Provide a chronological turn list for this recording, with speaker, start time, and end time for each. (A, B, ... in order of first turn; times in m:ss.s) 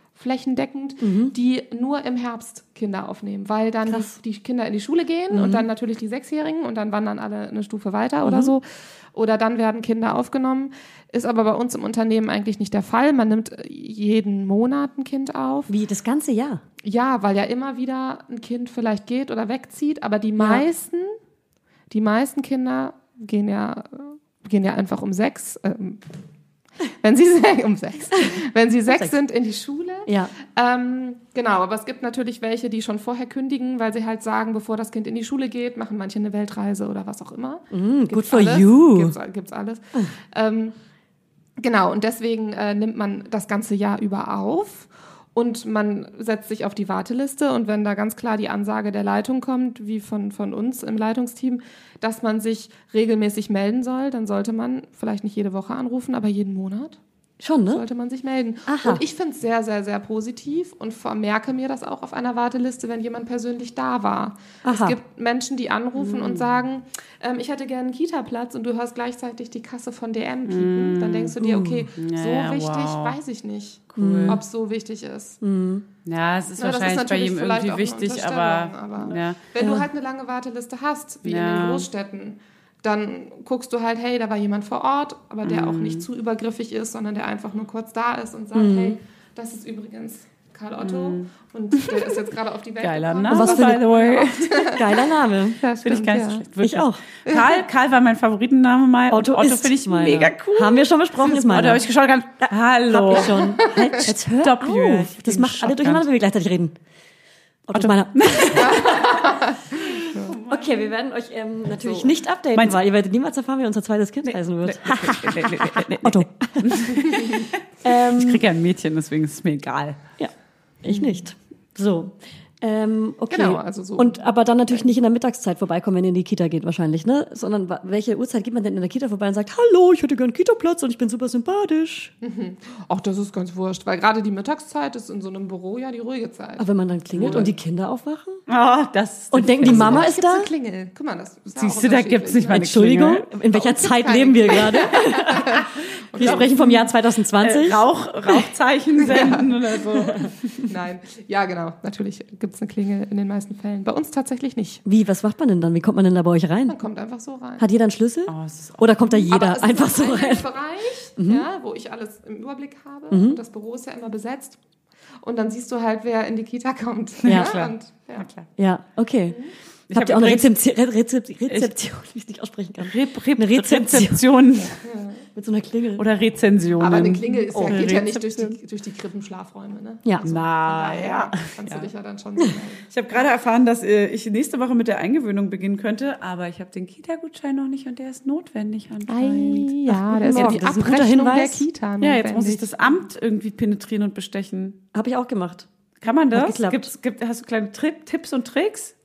0:00.2-0:15.7 A
0:01.0-0:01.4 B
0:03.9-0:04.1 B
0:05.3-0:05.7 B
0:08.2-0:08.5 B
0:15.7-0:16.6 B
0:16.8-0:21.2 A
0:20.4-0:20.6 B
0:21.9-0:26.0 A
0:27.0-0:40.8 A
0:28.9-0:29.2 B
0:30.1-0:30.3 B
0:37.7-0:39.2 B
0:41.6-0:57.0 A
0:57.4-0:57.8 B
0:57.7-1:15.4 A
0:58.7-0:59.0 B
1:04.6-1:05.0 B
1:06.0-1:06.6 C
1:10.4-1:11.4 C
1:11.4-1:11.8 B
1:12.0-1:13.2 C
1:14.0-1:14.4 C
1:14.0-1:14.4 B
1:15.4-1:15.8 B
1:16.0-1:19.4 C
1:16.6-1:36.5 A
1:19.6-1:19.9 B
1:21.2-1:21.9 C
1:25.4-1:26.1 C
1:28.5-1:29.0 B
1:30.8-1:34.9 C
1:33.3-1:33.8 B
1:34.7-1:35.6 B
1:35.8-1:46.1 C
1:36.6-1:37.0 B
1:37.3-1:37.6 A
1:39.1-1:41.9 B
1:42.4-1:46.8 B
1:47.7-1:49.4 B
1:47.7-1:49.0 C
1:48.5-1:50.4 A
1:50.1-1:50.9 C
1:50.5-1:58.4 B
1:51.8-1:52.1 A
1:52.5-1:52.8 C
1:54.2-2:00.0 C
2:00.8-2:12.1 B
2:00.9-2:01.2 A
2:03.3-2:04.8 A
2:12.2-2:17.6 A
2:16.6-2:18.4 B
2:17.2-2:17.5 C
2:18.5-2:20.1 C
2:19.3-2:20.5 B
2:19.6-2:22.7 A
2:21.5-2:23.3 C
2:22.5-2:27.9 B
2:23.5-2:26.8 A
2:26.2-2:26.6 C
2:27.4-2:30.4 C
2:29.0-2:29.7 A
2:30.6-2:34.8 A
2:34.8-2:36.8 B
2:36.7-2:37.6 A
2:37.6-2:40.5 B
2:38.3-2:39.0 C
2:39.0-2:44.6 A
2:41.2-2:41.5 B
2:43.1-2:43.4 B
2:45.2-2:48.3 A
2:47.2-2:48.5 C
2:47.3-2:47.5 B
2:48.6-2:49.4 B
2:49.9-2:50.6 C
2:49.9-2:54.3 B
2:51.5-2:51.8 C
2:52.8-2:54.8 C
2:54.8-2:55.2 A
2:55.4-2:56.0 B
2:56.0-2:58.6 C
2:56.8-3:02.9 A
2:57.6-2:58.4 B
3:00.0-3:00.3 B
3:00.2-3:01.9 C
3:02.9-3:09.8 C
3:09.1-3:13.0 A
3:09.9-3:11.7 B
3:12.0-3:14.8 C
3:14.9-3:15.7 B
3:16.0-3:18.9 C
3:16.3-3:16.9 B